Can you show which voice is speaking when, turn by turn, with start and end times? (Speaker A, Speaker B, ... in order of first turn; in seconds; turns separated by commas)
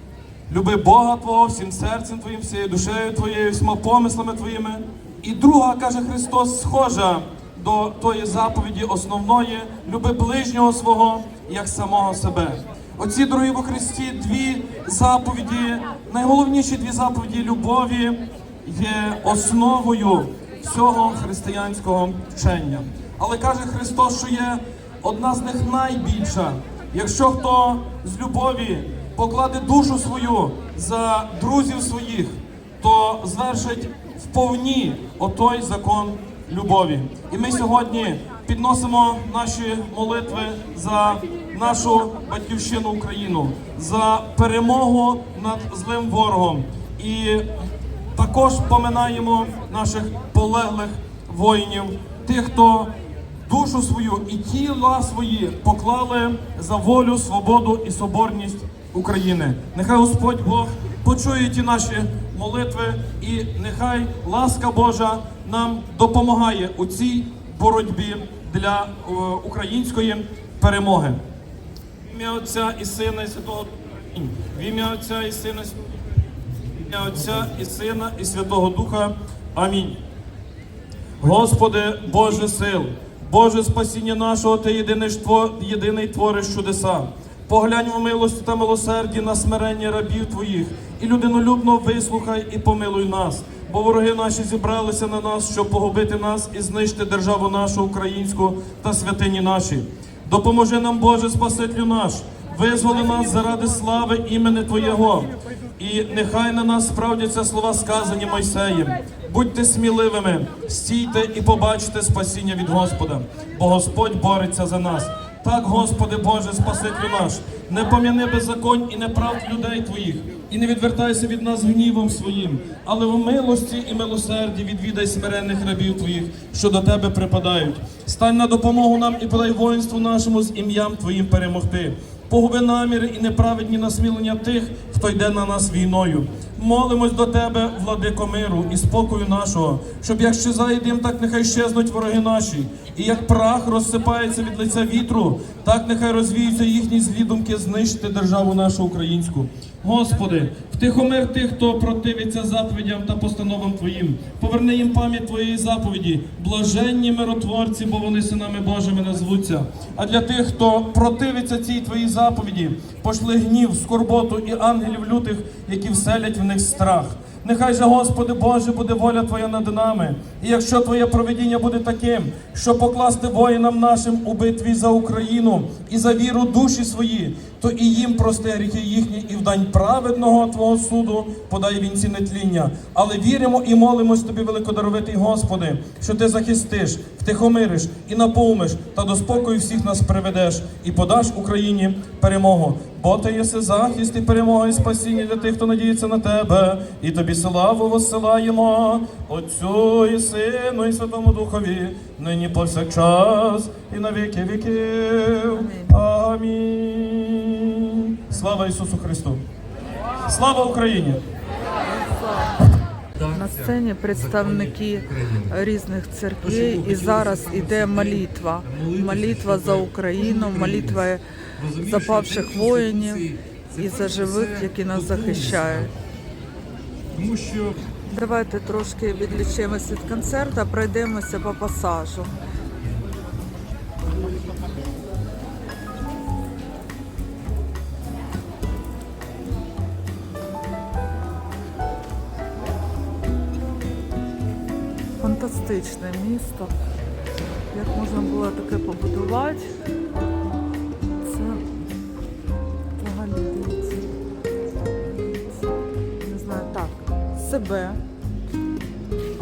Speaker A: 0.5-47.5, Speaker A: 48.1-52.9, Speaker A: 53.5-71.2, Speaker A: 72.0-75.8, Speaker A: 76.9-80.0, Speaker A: 81.2-209.4, Speaker B: 205.5-205.9, Speaker A: 210.3-211.2, Speaker B: 211.9-212.6, Speaker C: 213.2-215.5, Speaker B: 213.3-221.2, Speaker C: 216.4-221.0, Speaker C: 221.6-225.9, Speaker B: 221.8-225.9, Speaker C: 227.1-227.7, Speaker B: 228.1-232.3, Speaker B: 245.2-246.7, Speaker B: 247.7-249.7, Speaker B: 251.2-251.6, Speaker B: 253.0-254.1, Speaker B: 254.7-255.7, Speaker B: 256.2-258.0